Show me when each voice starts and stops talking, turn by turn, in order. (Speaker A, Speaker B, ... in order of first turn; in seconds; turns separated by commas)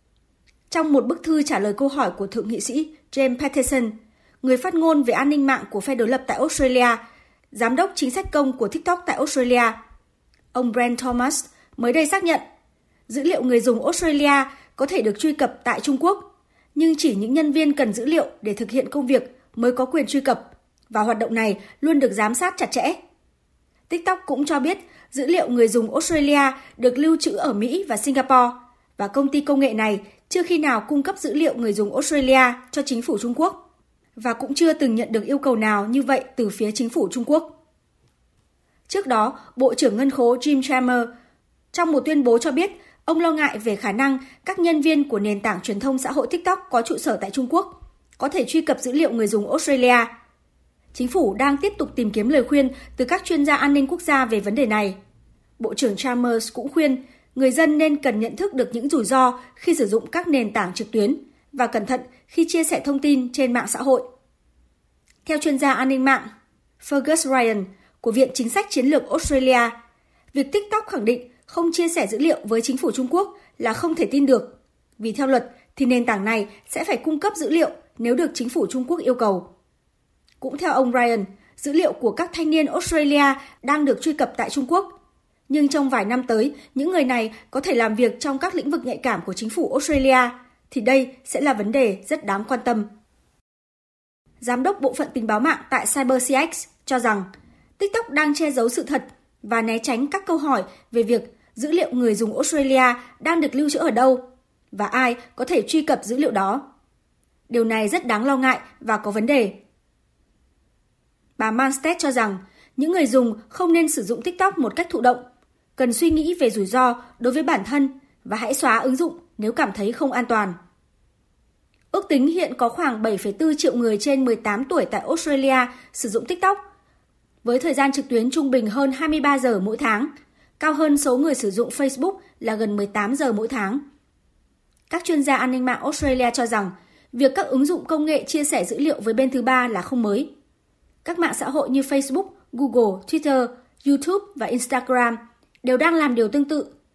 Speaker A: 0.7-7.0, Speaker A: 7.5-9.8, Speaker A: 10.5-12.4, Speaker A: 13.1-16.2, Speaker A: 16.8-23.0, Speaker A: 23.9-33.6, Speaker A: 34.2-37.5, Speaker A: 38.9-41.1, Speaker A: 41.7-50.1, Speaker A: 50.9-55.0, Speaker A: 55.6-64.0, Speaker A: 65.2-66.3, Speaker A: 66.8-69.7, Speaker A: 70.3-79.5, Speaker A: 80.4-84.9, Speaker A: 85.5-92.9, Speaker A: 94.4-97.3, Speaker A: 97.8-106.6, Speaker A: 107.5-109.6, Speaker A: 111.4-115.2, Speaker A: 115.8-120.6, Speaker A: 121.9-126.6, Speaker A: 127.4-133.8, Speaker A: 134.9-140.3, Speaker A: 141.0-146.7